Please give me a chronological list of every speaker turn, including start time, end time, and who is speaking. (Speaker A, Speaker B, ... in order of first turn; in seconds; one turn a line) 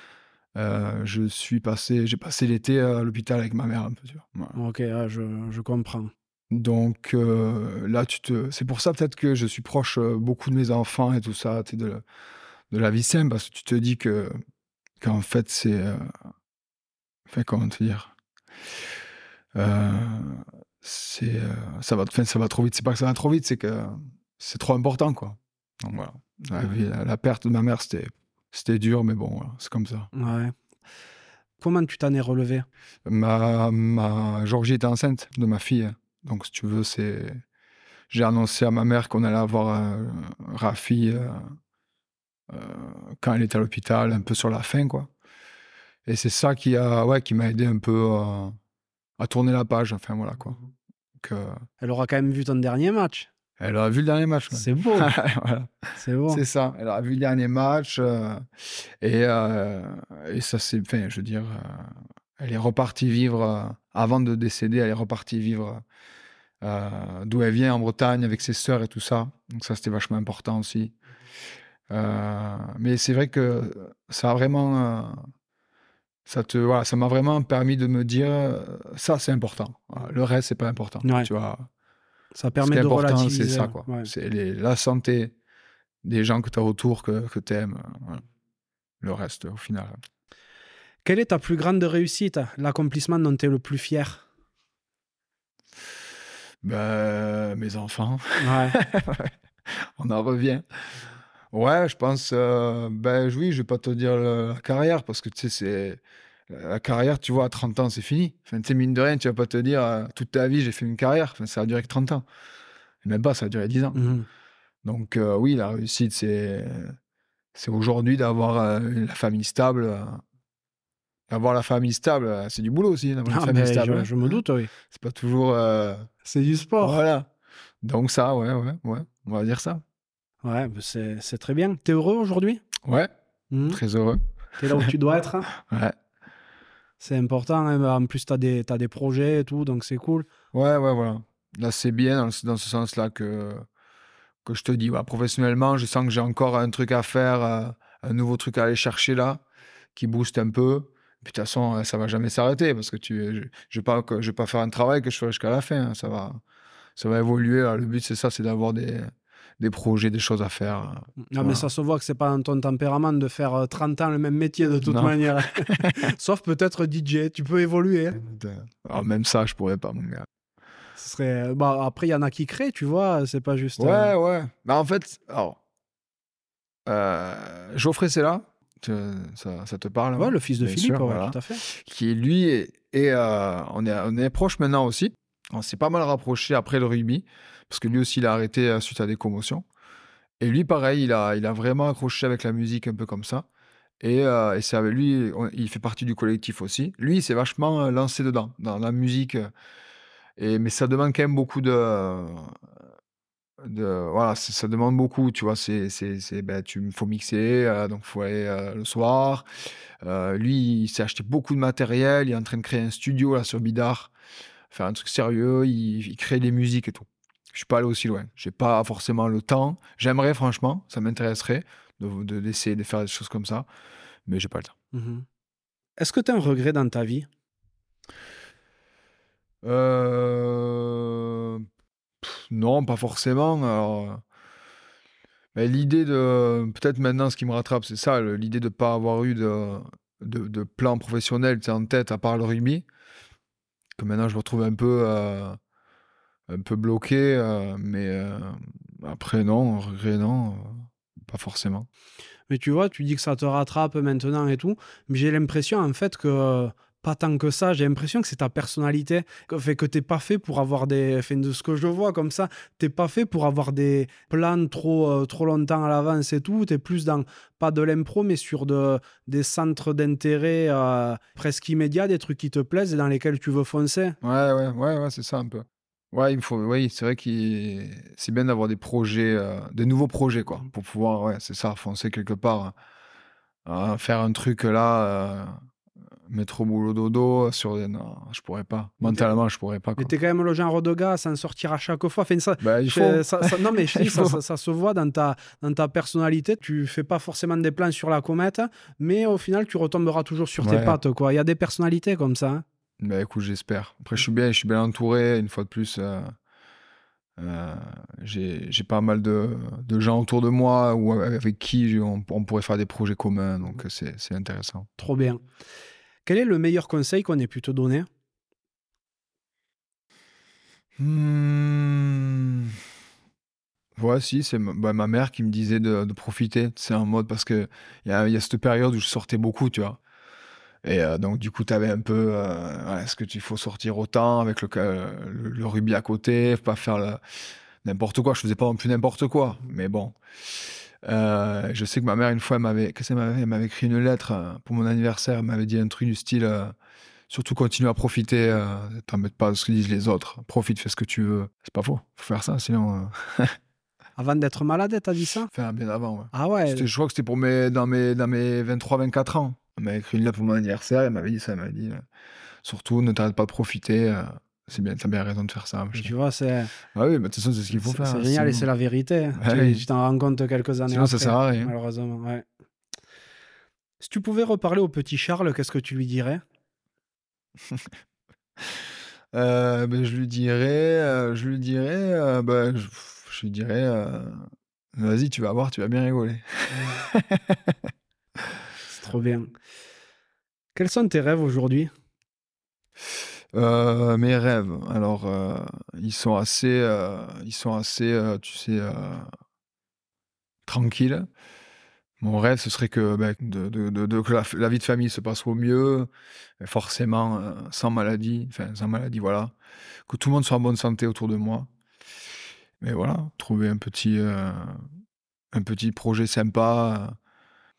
Speaker A: 0.5-4.6
Speaker B: 4.5-6.1
Speaker A: 6.5-12.0
Speaker A: 12.7-14.4
Speaker A: 15.0-16.1
Speaker A: 17.3-18.1
Speaker A: 19.5-30.1
Speaker B: 30.1-30.5
Speaker B: 31.6-32.6
Speaker A: 33.0-37.4
Speaker A: 38.1-41.6
Speaker A: 42.5-45.1
Speaker A: 46.0-48.6
Speaker A: 49.2-50.6
Speaker A: 51.2-51.6
Speaker B: 51.8-53.3
Speaker A: 53.6-65.8
Speaker B: 54.5-55.1
Speaker B: 56.0-56.4
Speaker A: 66.6-70.9
Speaker A: 71.9-75.3
Speaker A: 76.2-81.7
Speaker B: 81.0-81.3
Speaker B: 82.3-84.1
Speaker A: 82.6-85.3
Speaker A: 86.0-88.2
Speaker A: 89.0-90.0
Speaker B: 91.0-94.2
Speaker A: 96.6-100.6
Speaker B: 98.4-98.8
Speaker A: 101.5-112.2
Speaker A: 113.0-114.1
Speaker B: 113.9-114.2
Speaker A: 114.8-117.0
Speaker A: 117.5-120.2
Speaker A: 121.3-124.4
Speaker B: 123.3-124.7
Speaker A: 124.9-126.1
Speaker B: 126.2-127.0
Speaker A: 126.8-127.3
Speaker A: 127.8-129.8
Speaker B: 130.4-132.6
Speaker A: 132.8-133.1
Speaker B: 133.5-133.8
Speaker A: 133.7-134.9
Speaker B: 134.6-135.5
Speaker A: 135.5-135.9
Speaker B: 137.0-140.2
Speaker A: 140.5-143.6
Speaker A: 144.4-149.4
Speaker A: 149.9-156.4
Speaker A: 157.0-161.7
Speaker B: 161.3-168.2
Speaker A: 164.8-166.1
Speaker A: 168.2-170.3
Speaker B: 170.9-174.1
Speaker A: 173.8-175.6
Speaker A: 176.8-189.6
Speaker B: 180.2-181.6
Speaker A: 190.4-193.4
Speaker A: 194.0-199.5
Speaker A: 200.4-202.5
Speaker A: 203.6-214.1
Speaker A: 214.7-223.7
Speaker A: 224.3-224.7
Speaker B: 224.9-225.2
Speaker B: 226.0-227.3
Speaker A: 229.6-231.6
Speaker A: 232.2-234.2
Speaker A: 235.5-242.8
Speaker A: 244.0-245.6
Speaker A: 246.5-251.9
Speaker B: 252.5-274.2
Speaker A: 274.2-282.7
Speaker A: 283.6-285.6
Speaker A: 286.3-290.1
Speaker B: 290.0-302.6
Speaker A: 292.6-294.4
Speaker A: 300.6-301.0
Speaker A: 303.0-306.3
Speaker A: 307.4-314.9
Speaker B: 315.0-315.4
Speaker B: 316.2-318.1
Speaker A: 321.0-322.7
Speaker A: 324.0-330.0
Speaker A: 330.8-337.2
Speaker A: 337.8-340.1
Speaker A: 341.0-346.7
Speaker A: 347.3-353.6
Speaker B: 354.2-355.5
Speaker A: 355.5-362.0
Speaker B: 356.3-356.9
Speaker A: 362.6-366.1
Speaker B: 365.9-366.7
Speaker A: 366.9-368.7
Speaker B: 367.8-372.4
Speaker A: 369.4-369.8
Speaker A: 370.9-371.7
Speaker B: 374.0-376.4
Speaker A: 379.3-387.8
Speaker B: 386.7-387.0
Speaker B: 388.9-389.5
Speaker B: 390.7-391.9
Speaker A: 393.5-399.3
Speaker A: 400.7-401.3
Speaker A: 402.2-409.5
Speaker A: 410.1-411.7
Speaker A: 412.8-414.9
Speaker A: 415.5-417.2